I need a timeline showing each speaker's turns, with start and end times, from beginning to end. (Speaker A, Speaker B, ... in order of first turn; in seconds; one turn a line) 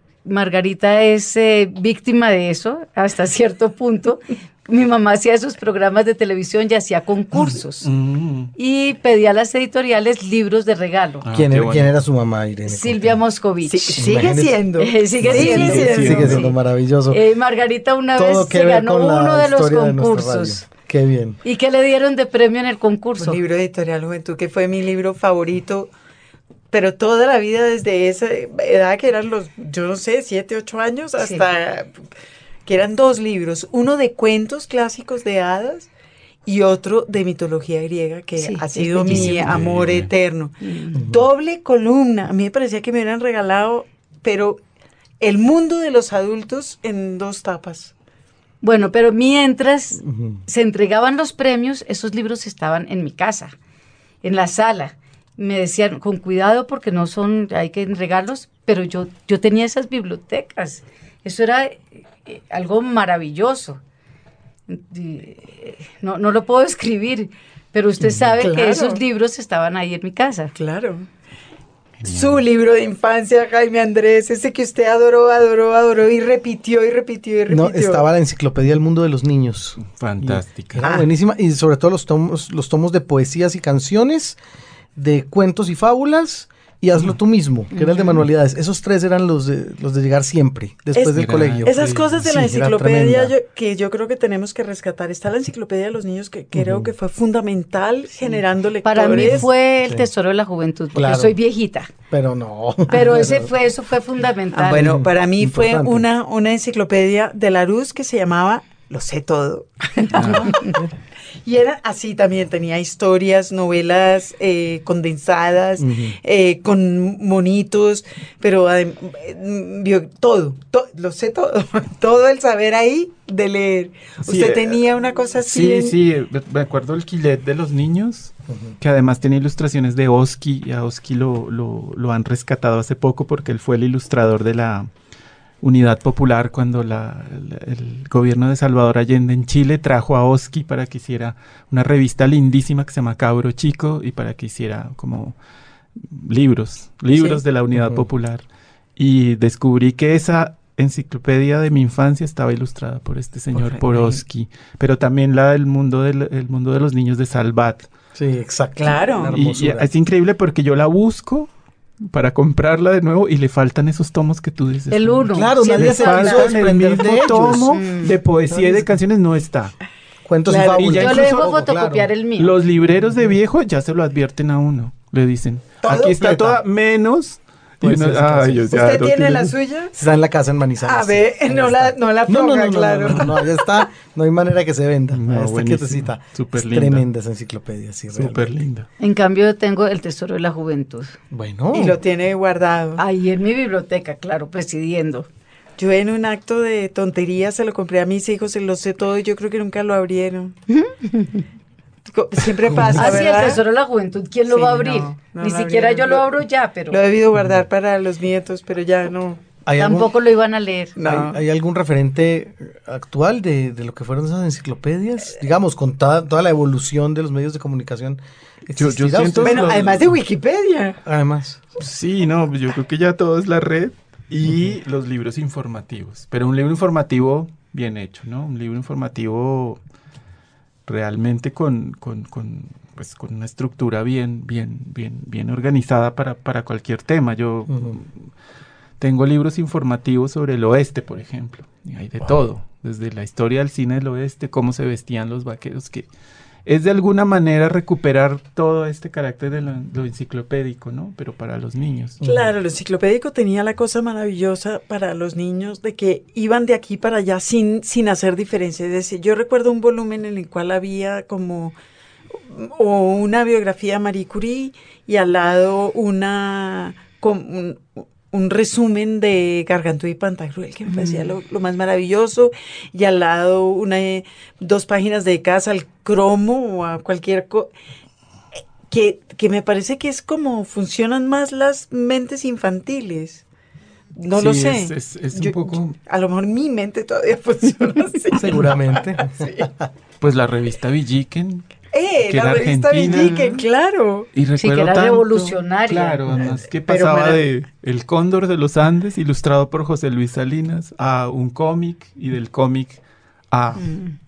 Speaker A: 0.2-7.9
Speaker B: 7.3-8.5
Speaker A: 8.6-11.2
Speaker B: 11.2-11.9
Speaker C: 11.3-13.2
Speaker A: 12.7-14.1
Speaker D: 13.6-16.4
Speaker C: 14.0-14.6
Speaker A: 14.8-16.5
Speaker C: 15.2-17.2
Speaker B: 15.3-16.4
Speaker A: 17.1-20.6
Speaker C: 18.1-21.4
Speaker A: 21.4-23.4
Speaker D: 23.2-25.9
Speaker D: 26.7-32.1
Speaker A: 31.2-31.4
Speaker D: 32.6-35.9
Speaker D: 36.5-44.6
Speaker A: 38.4-39.6
Speaker B: 39.1-40.1
Speaker A: 40.6-41.0
Speaker C: 40.9-41.2
Speaker D: 45.2-47.9
Speaker A: 48.6-53.5
Speaker C: 50.0-50.4
Speaker A: 54.2-63.8
Speaker A: 64.7-70.5
Speaker D: 68.4-69.0
Speaker D: 70.5-71.1
Speaker B: 72.0-72.3
Speaker D: 72.0-78.0
Speaker C: 77.5-84.4
Speaker B: 79.8-80.8
Speaker D: 80.8-81.1
Speaker C: 85.0-93.3
Speaker A: 87.7-88.2
Speaker D: 91.0-99.5
Speaker B: 91.0-92.0
Speaker C: 96.5-96.9
Speaker A: 98.8-101.9
Speaker C: 99.1-100.1
Speaker C: 100.9-101.3
Speaker C: 102.1-103.5
Speaker D: 102.9-103.3
Speaker A: 102.9-105.0
Speaker D: 104.5-110.8
Speaker C: 104.7-106.0
Speaker B: 110.1-110.6
Speaker D: 111.4-125.9
Speaker C: 115.8-116.2
Speaker B: 124.2-124.8
Speaker B: 125.4-134.9
Speaker B: 135.6-145.3
Speaker B: 145.9-148.4
Speaker D: 147.1-147.4
Speaker C: 147.7-148.1
Speaker B: 149.0-157.9
Speaker D: 153.5-153.8
Speaker C: 158.2-159.9
Speaker D: 158.8-159.3
Speaker B: 159.3-169.8
Speaker A: 164.9-166.5
Speaker C: 165.3-167.9
Speaker A: 167.7-168.1
Speaker C: 168.5-168.9
Speaker C: 170.2-172.1
Speaker D: 170.4-171.0
Speaker B: 170.7-171.6
Speaker A: 171.0-172.5
Speaker B: 172.4-179.5
Speaker D: 175.8-176.6
Speaker C: 177.8-179.1
Speaker D: 178.7-179.9
Speaker C: 179.9-188.5
Speaker D: 180.8-183.5
Speaker B: 185.1-187.0
Speaker B: 188.1-188.9
Speaker A: 189.0-191.1
Speaker C: 191.3-191.9
Speaker D: 191.7-193.0
Speaker A: 193.0-195.3
Speaker D: 195.8-200.6
Speaker A: 200.7-201.4
Speaker D: 202.1-203.6
Speaker C: 202.7-203.2
Speaker A: 202.9-207.0
Speaker D: 204.5-206.3
Speaker D: 206.9-209.4
Speaker C: 209.7-210.1
Speaker A: 209.8-211.0
Speaker D: 210.9-211.4
Speaker C: 211.0-219.8
Speaker B: 218.7-220.1
Speaker D: 219.4-221.0
Speaker C: 221.0-221.6
Speaker B: 221.8-229.8
Speaker B: 230.8-238.3
Speaker C: 237.7-237.9
Speaker B: 239.0-246.1
Speaker B: 246.7-252.2
Speaker C: 252.2-252.5
Speaker D: 252.2-261.8
Speaker D: 262.3-277.7
Speaker A: 270.9-271.3
Speaker D: 278.9-283.4
Speaker D: 284.1-289.7
Speaker B: 284.3-286.0
Speaker C: 288.3-289.9
Speaker B: 290.2-291.7
Speaker D: 291.9-294.3
Speaker B: 292.3-293.4
Speaker A: 293.1-293.6
Speaker B: 294.3-304.0
Speaker A: 294.6-296.2
Speaker C: 296.3-296.6
Speaker D: 296.9-297.4
Speaker A: 303.8-304.1